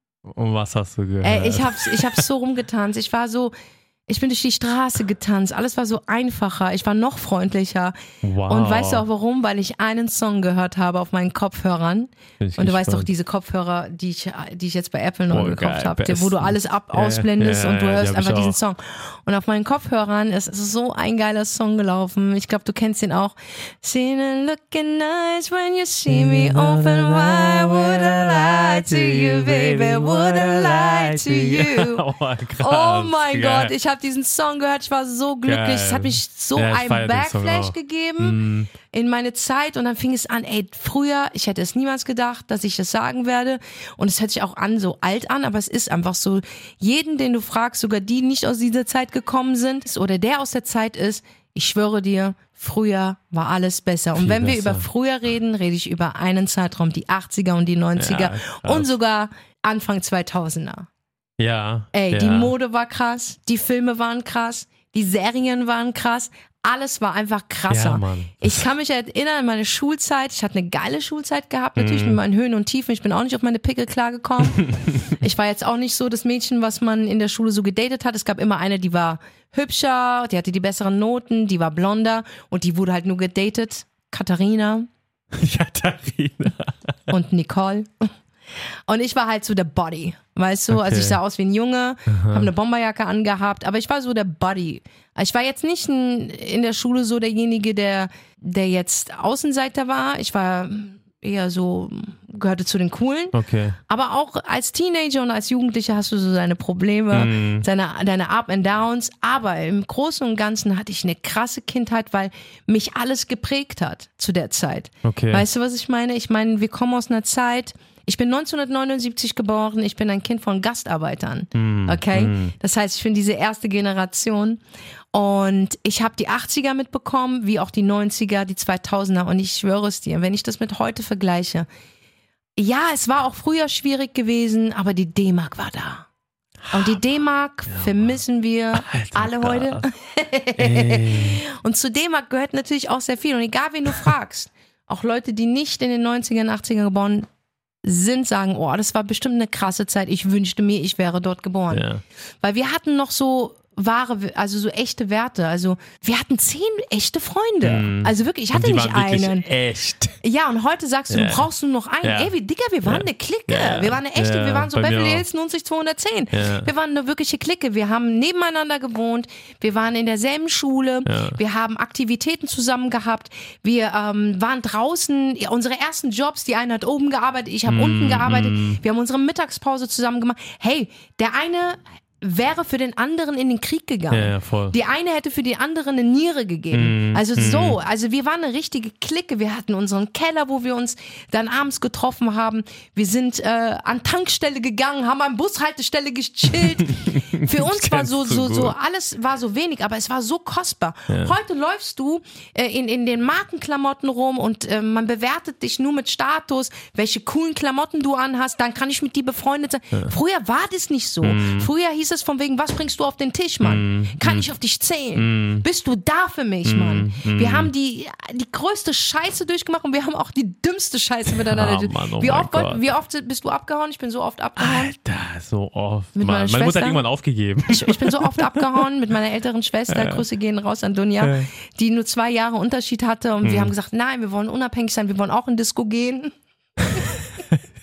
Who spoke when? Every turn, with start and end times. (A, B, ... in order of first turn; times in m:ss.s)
0:00.2-0:02.2 A
0:01.2-0:03.5 B
0:04.1-0:07.9 B
0:08.2-0:09.0 A
0:08.5-0:32.0 B
0:12.4-0:13.1 A
0:15.3-0:18.5 A
0:26.1-0:33.7 A
0:32.6-0:38.4 B
0:35.4-0:38.7 A
0:38.9-1:00.9 B
0:54.1-0:54.9 A
0:58.0-0:58.9 A
1:01.4-1:02.5 A
1:01.9-1:24.9 B
1:07.7-1:08.6 A
1:11.8-1:12.2 A
1:25.3-1:26.9 A
1:27.1-1:28.1 B
1:28.9-1:43.4 B
1:30.7-1:31.2 A
1:32.1-1:32.5 A
1:43.3-1:43.8 A
1:43.9-2:04.6 B
1:47.1-1:47.6 A
1:55.0-1:55.4 A
2:01.5-2:02.5 A
2:05.1-2:11.7 B
2:12.6-2:16.1 B
2:16.6-2:17.0 A
2:16.7-2:27.3 B
2:17.7-2:18.2 A
2:18.7-2:19.8 A
2:20.6-2:21.4 A
2:27.8-2:31.8 B
2:31.7-2:32.0 A
2:32.4-2:39.4 B
2:37.6-2:40.2 A
2:40.2-3:44.9 B
2:41.1-2:41.5 A
2:42.0-2:42.3 A
2:42.8-2:45.2 A
2:46.3-2:46.7 A
2:51.0-2:51.4 A
2:57.6-2:58.8 A
3:04.1-3:04.7 A
3:06.7-3:07.8 A
3:16.6-3:18.7 A
3:21.1-3:21.3 A
3:31.2-3:31.7 A
3:33.6-3:34.5 A
3:35.2-3:35.6 A
3:36.6-3:37.7 A
3:41.3-3:42.8 A
3:44.6-3:48.8 A
3:46.2-3:47.0 B
3:47.7-3:56.3 B
3:49.9-3:50.2 A
3:51.2-3:51.5 A
3:53.4-3:53.7 A
3:56.9-3:57.2 B